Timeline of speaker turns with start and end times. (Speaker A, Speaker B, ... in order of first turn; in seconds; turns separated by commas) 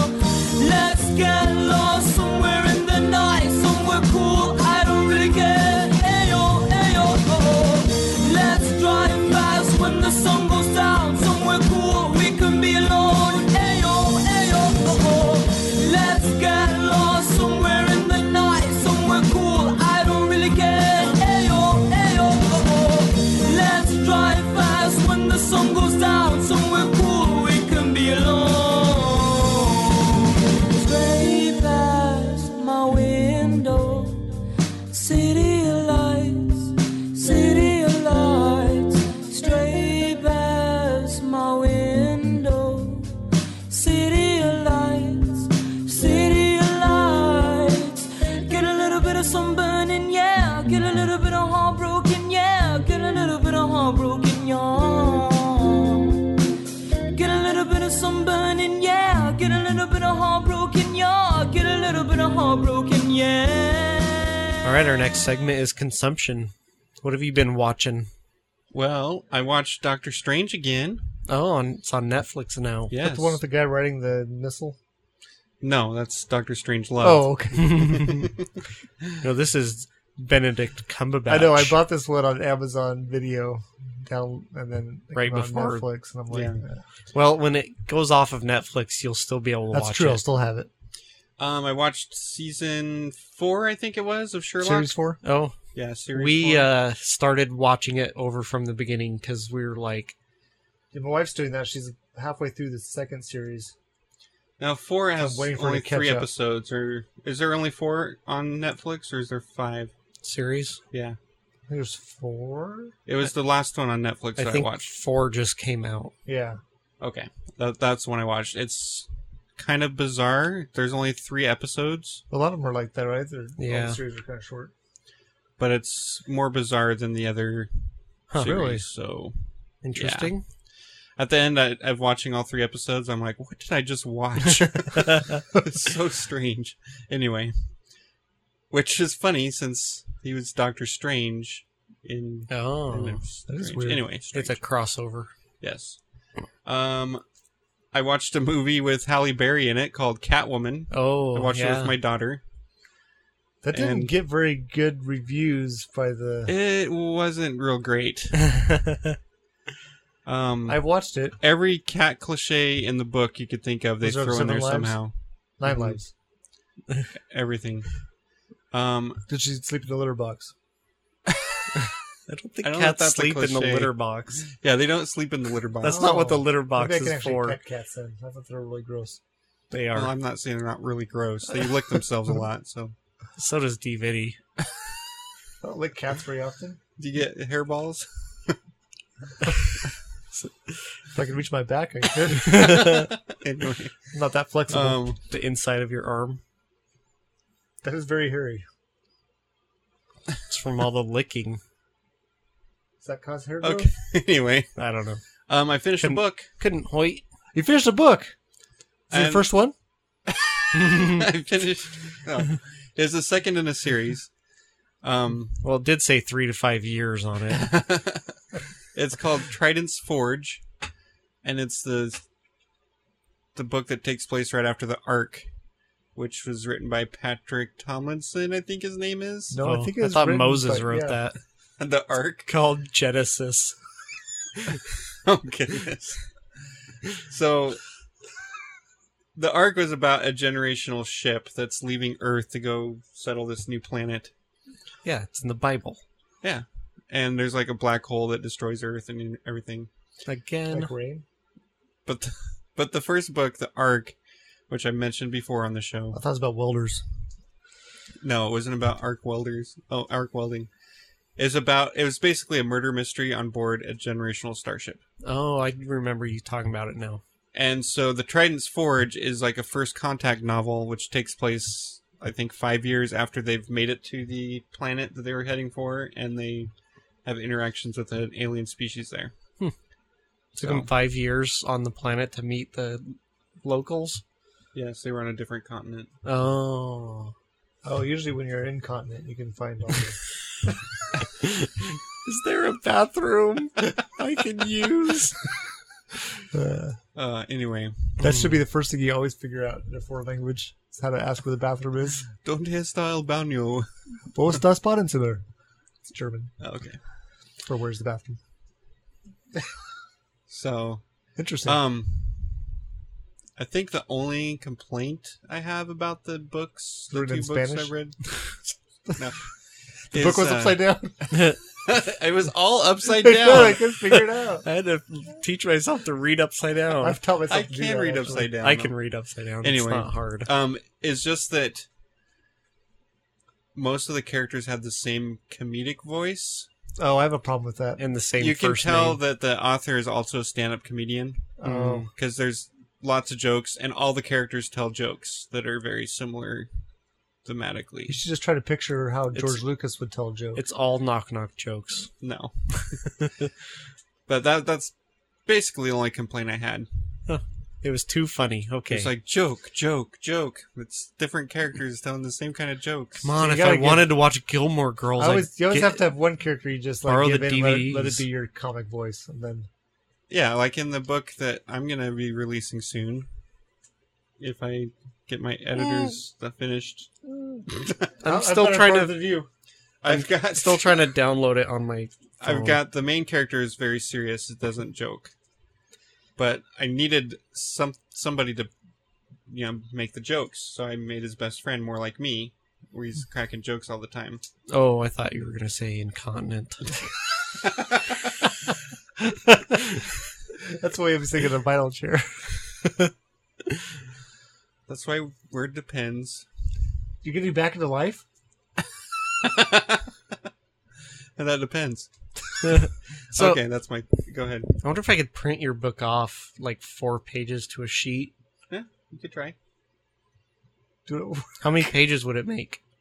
Speaker A: 0.6-29.4, Speaker A: 30.8-34.0, Speaker A: 35.0-36.4, Speaker A: 37.2-38.1, Speaker A: 39.4-40.3, Speaker A: 45.9-46.6, Speaker A: 48.5-53.4, Speaker A: 54.0-55.3, Speaker A: 57.2-60.0, Speaker A: 60.6-62.3, Speaker B: 64.6-68.1, Speaker C: 68.7-71.1, Speaker B: 71.3-72.9, Speaker C: 72.9-73.4, Speaker D: 73.0-74.8, Speaker C: 75.6-78.3, Speaker D: 77.0-78.2, Speaker B: 77.6-78.2, Speaker B: 79.2-81.8, Speaker D: 81.3-86.8, Speaker B: 85.1-85.9, Speaker C: 86.3-86.6, Speaker B: 87.1-90.2, Speaker D: 89.7-90.7, Speaker C: 91.4-94.9, Speaker D: 94.6-95.2, Speaker B: 95.2-95.5, Speaker C: 95.8-96.7, Speaker B: 96.1-100.2, Speaker D: 100.9-103.7, Speaker C: 104.6-109.9, Speaker D: 105.2-106.3, Speaker B: 110.2-110.8, Speaker C: 110.9-111.2, Speaker D: 111.7-113.0, Speaker C: 113.1-114.9, Speaker B: 114.4-116.1, Speaker D: 116.3-116.6, Speaker C: 117.0-122.2, Speaker D: 122.3-124.7, Speaker B: 123.6-124.0, Speaker C: 125.6-127.7, Speaker B: 128.3-128.6, Speaker C: 128.3-129.4, Speaker D: 128.4-128.8, Speaker B: 129.8-130.4, Speaker C: 129.9-130.3, Speaker C: 131.2-137.6, Speaker C: 138.7-144.6, Speaker B: 142.5-143.2, Speaker D: 143.5-144.1, Speaker B: 144.3-145.3, Speaker C: 145.6-146.0, Speaker C: 146.7-147.2, Speaker C: 147.9-152.4, Speaker B: 150.9-152.0, Speaker D: 153.6-156.5, Speaker C: 153.7-154.1, Speaker C: 156.5-158.4, Speaker B: 158.5-159.2, Speaker C: 160.2-160.8, Speaker D: 160.7-161.4, Speaker C: 161.4-165.2, Speaker D: 164.0-165.0, Speaker D: 165.6-166.1, Speaker C: 165.7-166.0, Speaker C: 167.2-167.9, Speaker C: 168.7-169.2, Speaker D: 169.3-170.5, Speaker C: 171.3-171.6, Speaker B: 172.3-174.4, Speaker C: 172.6-176.2, Speaker B: 175.8-177.6, Speaker D: 175.8-179.2, Speaker B: 179.7-180.1, Speaker C: 179.9-182.9, Speaker B: 183.4-184.4, Speaker D: 185.6-186.8, Speaker C: 187.0-188.6, Speaker D: 191.1-193.0, Speaker B: 192.5-193.1, Speaker C: 192.6-194.0, Speaker D: 194.1-195.0, Speaker C: 194.7-195.2, Speaker B: 195.3-196.4, Speaker D: 197.8-198.6, Speaker B: 200.5-201.6, Speaker D: 203.0-203.9, Speaker C: 203.6-204.7, Speaker B: 204.8-205.2, Speaker C: 205.5-206.5, Speaker B: 206.0-207.2, Speaker D: 207.6-208.3, Speaker D: 209.1-209.7, Speaker C: 209.1-209.5, Speaker C: 210.3-214.3, Speaker B: 210.8-211.2, Speaker C: 215.0-215.6, Speaker B: 215.6-217.7, Speaker C: 217.5-218.4, Speaker C: 218.9-220.6, Speaker C: 221.4-222.2, Speaker C: 223.6-225.5, Speaker C: 226.2-229.6, Speaker D: 229.5-231.2, Speaker B: 229.6-231.4, Speaker C: 231.8-232.5, Speaker B: 232.5-233.8, Speaker C: 235.2-236.3, Speaker C: 237.3-237.8, Speaker C: 239.3-244.3, Speaker B: 245.1-246.0, Speaker C: 246.4-249.9, Speaker B: 250.3-250.9, Speaker D: 250.7-251.2, Speaker C: 252.1-254.2, Speaker C: 254.7-256.2, Speaker D: 256.1-257.0, Speaker C: 258.2-260.7, Speaker C: 261.4-265.0, Speaker B: 265.2-267.2, Speaker C: 267.5-276.7, Speaker C: 277.2-279.3, Speaker B: 280.6-284.2, Speaker C: 280.6-280.9, Speaker C: 284.7-286.1, Speaker B: 286.2-287.3, Speaker D: 287.8-290.2, Speaker B: 292.2-295.4, Speaker D: 296.5-297.0, Speaker C: 297.1-298.2, Speaker D: 298.2-302.3, Speaker B: 298.2-298.5, Speaker C: 302.4-303.9, Speaker D: 304.3-305.4, Speaker D: 306.1-306.5, Speaker C: 306.6-307.0, Speaker D: 307.6-308.4, Speaker C: 310.5-311.0, Speaker D: 311.4-311.8, Speaker C: 311.6-312.7, Speaker C: 313.6-318.2, Speaker D: 317.1-318.0, Speaker C: 319.2-319.4, Speaker C: 320.1-321.3, Speaker D: 320.1-321.3, Speaker C: 321.8-323.9, Speaker D: 323.2-324.7, Speaker B: 324.1-327.2, Speaker D: 327.0-328.6, Speaker C: 327.5-328.9, Speaker B: 328.6-330.5, Speaker C: 329.6-331.9, Speaker C: 333.8-336.7, Speaker D: 337.0-338.0, Speaker B: 338.0-339.2, Speaker C: 338.4-346.7, Speaker D: 341.6-342.1, Speaker B: 341.6-342.1, Speaker C: 347.4-348.2, Speaker D: 348.1-350.6, Speaker B: 349.3-349.6, Speaker B: 350.6-352.1, Speaker C: 352.2-353.0, Speaker C: 354.3-354.9, Speaker C: 355.5-356.9, Speaker B: 357.3-359.1, Speaker C: 358.9-363.3, Speaker B: 363.2-366.0, Speaker D: 363.4-364.2, Speaker D: 365.2-369.7, Speaker B: 367.1-368.2, Speaker C: 370.3-373.3, Speaker C: 374.4-377.1, Speaker D: 377.3-377.7, Speaker C: 377.7-378.1, Speaker D: 378.2-379.5, Speaker B: 378.2-379.2, Speaker C: 380.0-381.1, Speaker B: 380.1-382.8, Speaker C: 382.4-385.3, Speaker C: 386.4-388.7, Speaker C: 389.5-394.4, Speaker B: 394.7-396.9, Speaker C: 397.6-398.2, Speaker B: 399.5-399.8, Speaker D: 400.8-402.9, Speaker C: 404.9-406.5, Speaker D: 407.2-408.2, Speaker C: 409.4-410.4, Speaker C: 411.4-414.8, Speaker B: 412.6-413.6, Speaker B: 414.8-418.3, Speaker C: 418.7-419.6, Speaker D: 421.1-421.5, Speaker B: 421.6-422.8